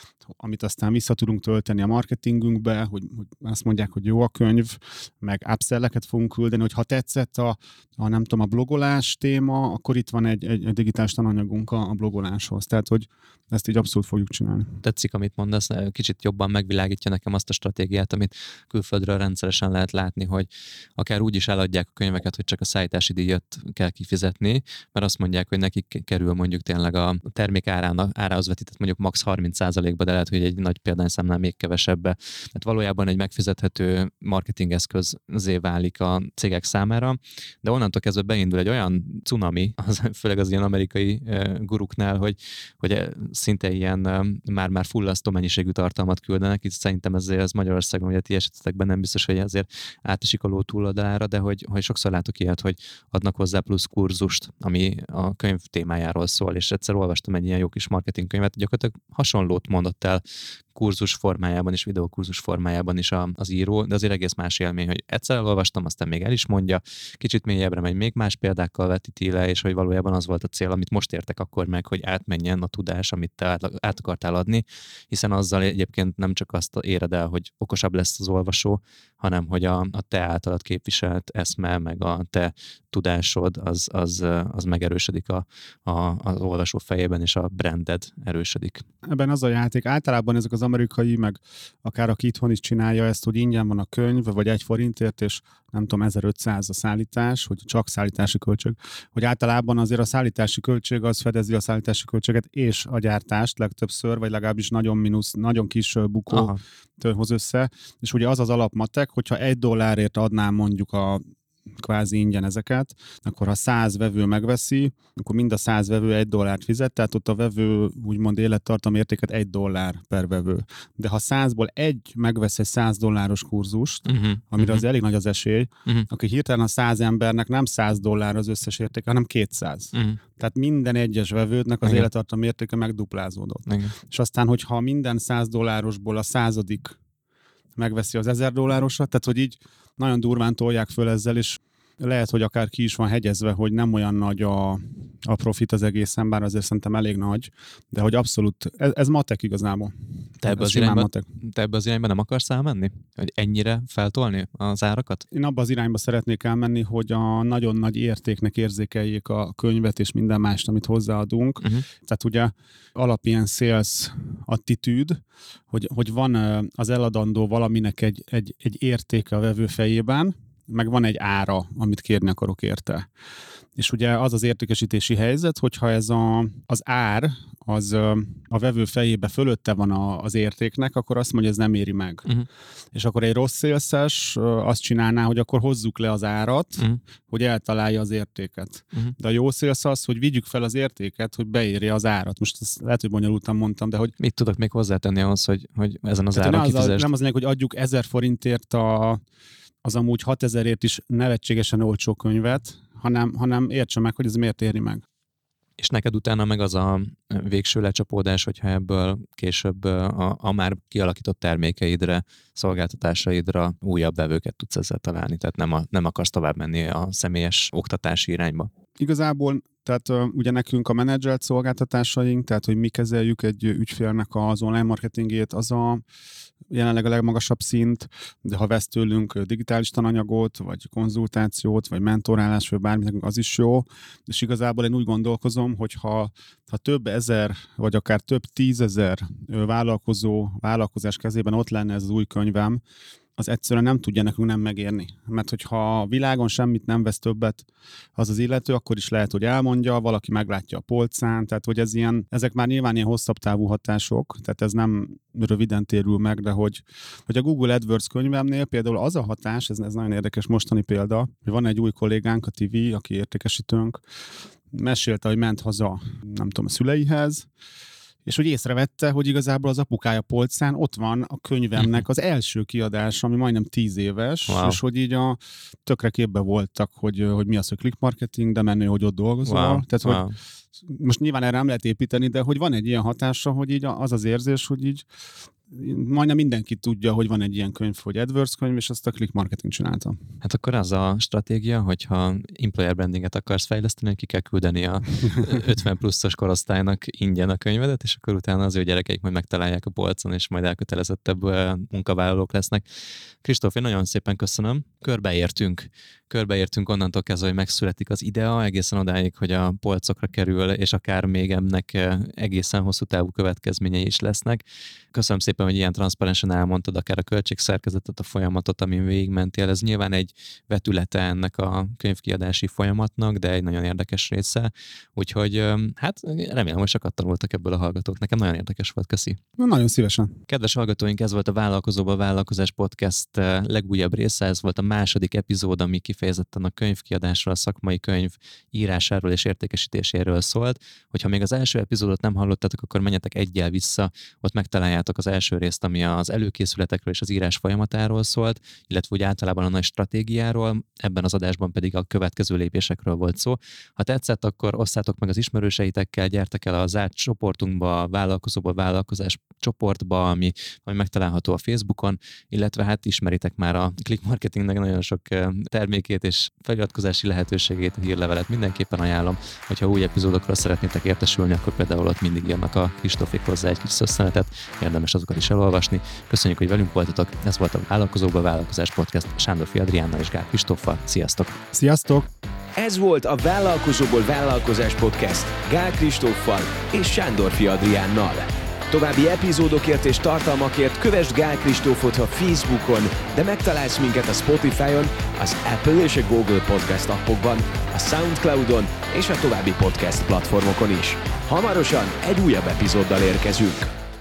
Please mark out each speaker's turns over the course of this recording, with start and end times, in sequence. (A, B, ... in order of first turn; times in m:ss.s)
0:00.4-0:14.8 A
0:14.8-1:00.2 B
1:00.7-1:28.8 B
1:29.0-1:51.2 A
1:46.3-1:46.6 B
1:51.8-2:17.0 A
2:04.1-2:04.8 B
2:09.9-2:10.2 B
2:13.7-2:13.9 B
2:17.8-2:29.9 A
2:30.4-2:35.2 B
2:30.4-2:31.3 A
2:35.3-2:53.1 A
2:53.8-3:02.3 A
3:02.9-3:14.1 A
3:14.2-3:17.1 B
3:16.4-3:19.2 A
3:19.8-3:25.0 A
3:25.8-3:38.7 B
3:39.0-3:46.0 A
3:46.7-4:02.8 A
4:03.4-4:24.0 A
4:24.7-4:27.5 A
4:28.3-4:40.2 A
4:31.8-4:32.0 B
4:34.5-4:34.8 B
4:39.4-4:40.4 B
4:40.9-4:45.1 A
4:45.7-4:50.2 A
4:50.4-5:02.8 B
5:03.4-5:14.6 B
5:15.1-5:29.4 B
5:29.6-5:30.4 A
5:30.5-6:21.6 B
6:21.7-6:22.3 A
6:22.8-6:43.9 C